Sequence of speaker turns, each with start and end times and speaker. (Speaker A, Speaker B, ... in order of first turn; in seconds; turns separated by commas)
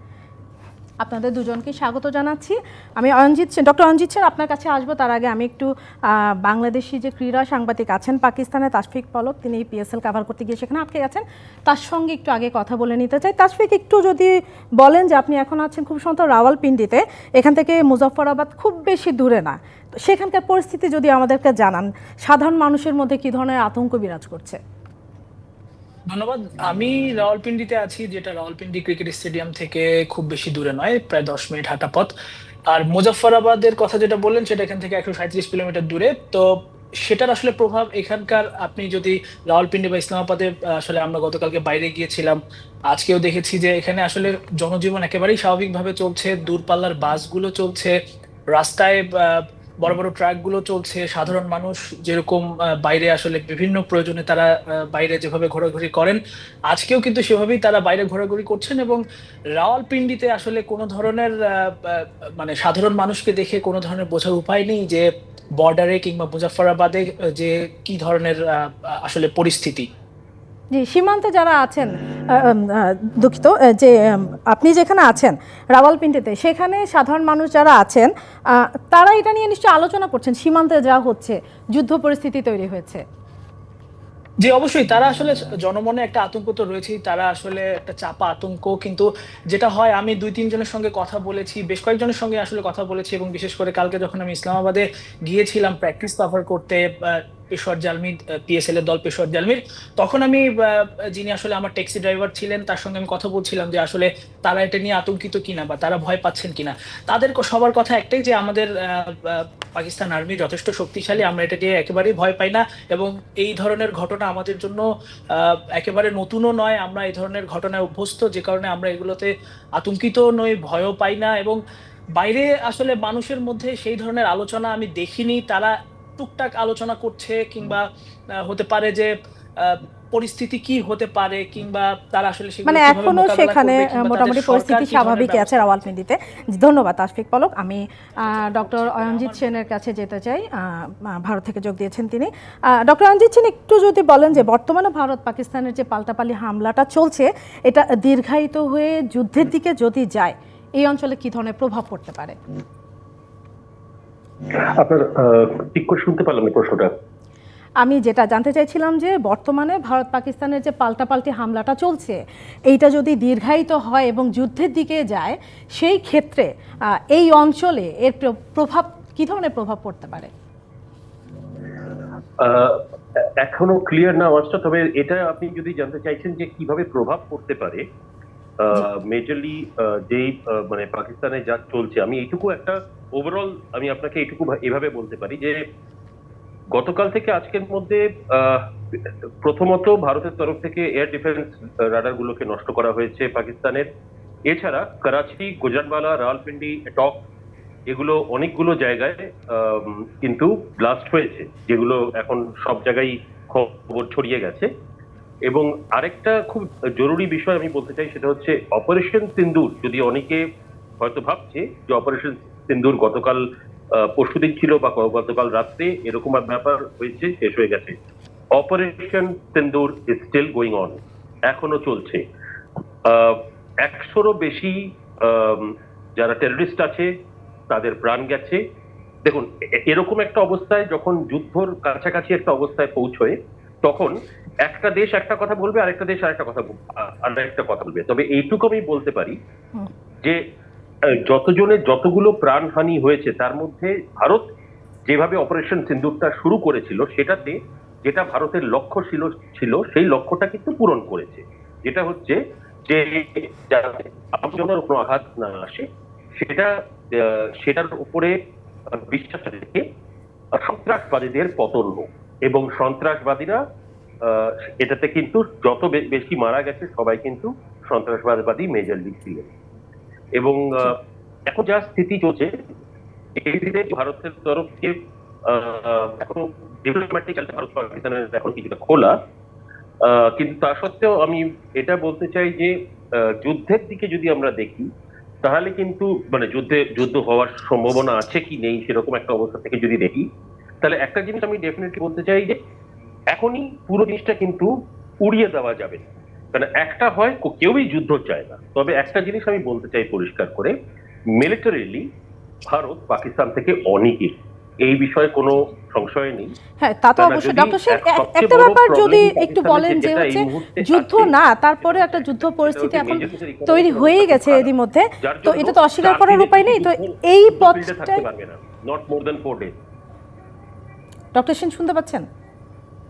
Speaker A: 1.0-24.6, Speaker B: 26.1-32.1, Speaker B: 32.7-36.5, Speaker B: 37.0-47.9, Speaker B: 48.5-59.0, Speaker B: 59.5-65.0, Speaker B: 65.6-69.9, Speaker A: 70.7-83.0, Speaker B: 84.4-114.8, Speaker B: 115.3-121.6, Speaker B: 122.2-127.8, Speaker B: 128.4-135.7, Speaker A: 132.7-152.4, Speaker B: 138.3-139.4, Speaker C: 154.6-156.9, Speaker A: 157.8-170.3, Speaker C: 172.4-177.8, Speaker C: 178.6-185.6, Speaker C: 186.7-193.9, Speaker C: 194.5-197.2, Speaker C: 197.9-204.7, Speaker C: 205.5-210.4, Speaker C: 211.0-213.4, Speaker C: 213.9-217.9, Speaker C: 218.5-222.2, Speaker C: 223.1-227.1, Speaker C: 227.7-228.6, Speaker C: 229.2-239.4, Speaker C: 241.1-244.4, Speaker C: 245.1-258.3, Speaker C: 258.9-259.8, Speaker C: 260.5-263.6, Speaker C: 264.2-269.5, Speaker C: 270.4-272.5, Speaker C: 273.4-279.1, Speaker C: 280.0-284.9, Speaker C: 285.4-290.2, Speaker C: 290.8-292.6, Speaker C: 293.3-294.7, Speaker C: 295.2-300.7, Speaker C: 301.4-302.0, Speaker C: 302.7-306.5, Speaker A: 306.8-318.2, Speaker C: 307.2-314.7, Speaker C: 315.2-319.7, Speaker A: 321.3-322.2